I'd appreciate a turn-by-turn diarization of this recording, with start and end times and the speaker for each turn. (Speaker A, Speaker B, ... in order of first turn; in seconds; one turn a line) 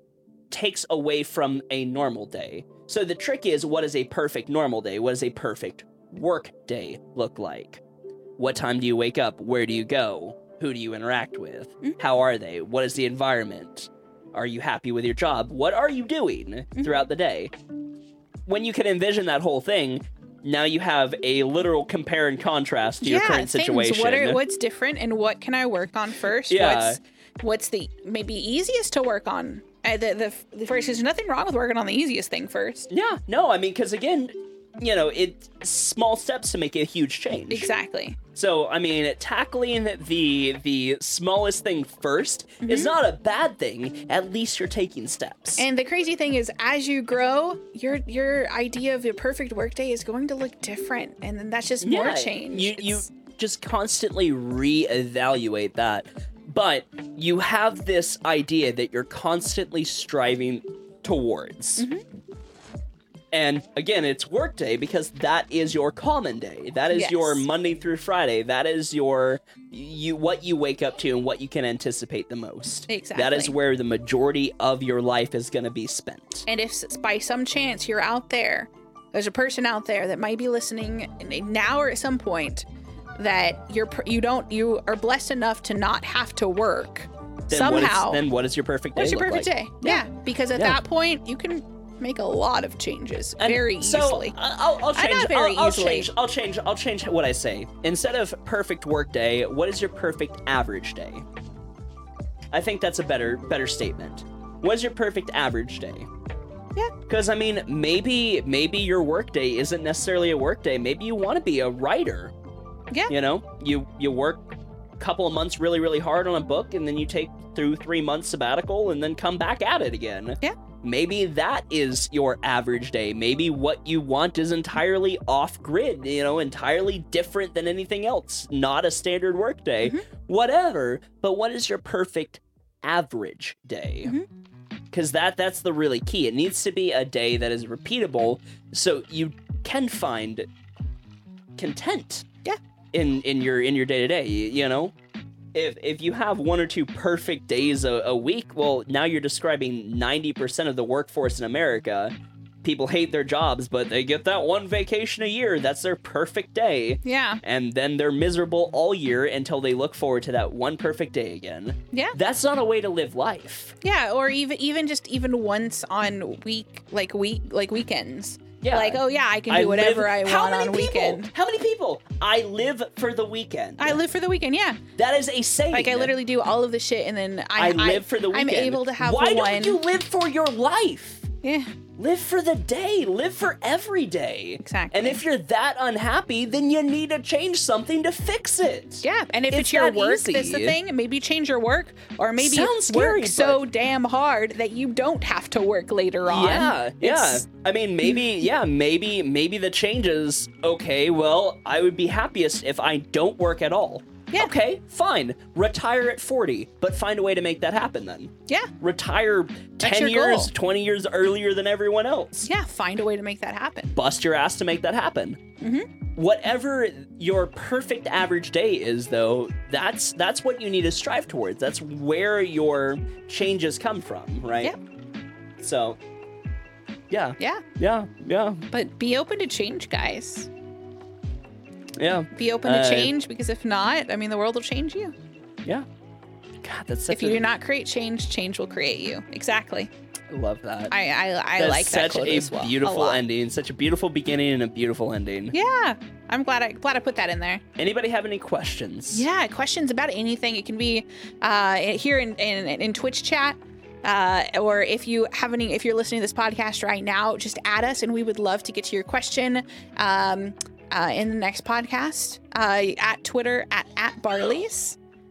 Speaker A: 0.5-7.8
Speaker A: 8.4-17.5
Speaker A: 18.5-24.4
Speaker B: 23.0-32.9
Speaker A: 26.5-27.0
Speaker A: 32.9-37.7
Speaker B: 37.5-38.2
Speaker A: 38.3-45.6
Speaker B: 42.6-43.0
Speaker B: 45.6-53.1
Speaker A: 51.8-61.9
Speaker B: 61.8-62.0
Speaker A: 63.3-76.5
Speaker B: 66.9-67.5
Speaker B: 72.9-73.6
Speaker B: 76.5-82.7
Speaker B: 83.2-88.2
Speaker A: 87.5-90.8
Speaker B: 89.0-94.4
Speaker A: 93.4-101.2
Speaker B: 94.9-96.1
Speaker A: 102.5-106.1
Speaker A: 107.1-112.3
Speaker A: 113.1-114.4
Speaker A: 115.0-134.2
Speaker A: 134.9-140.5
Speaker A: 141.6-142.3
Speaker A: 142.9-144.9
Speaker A: 145.5-152.1
Speaker A: 152.6-163.8
Speaker B: 157.1-157.4
Speaker B: 161.9-162.2
Speaker B: 163.8-171.3
Speaker A: 168.6-174.0
Speaker B: 173.8-174.8
Speaker A: 175.0-176.1
Speaker B: 175.7-179.8
Speaker A: 177.6-181.3
Speaker B: 181.4-181.7
Speaker A: 182.0-190.8
Speaker B: 184.6-185.2
Speaker B: 189.0-197.4
Speaker A: 192.4-193.6
Speaker A: 196.3-212.5
Speaker B: 209.8-210.5
Speaker B: 212.4-214.0
Speaker A: 213.9-215.4
Speaker B: 215.6-215.9
Speaker A: 216.2-224.7
Speaker A: 225.6-226.0
Speaker A: 227.1-228.7
Speaker B: 227.4-227.7
Speaker B: 228.7-230.5
Speaker A: 232.0-233.1
Speaker B: 232.3-235.1
Speaker A: 236.6-237.4
Speaker B: 237.1-239.9
Speaker A: 240.3-240.9
Speaker B: 240.9-243.2
Speaker A: 241.6-245.6
Speaker B: 245.5-247.6
Speaker A: 247.8-249.3
Speaker B: 249.1-265.0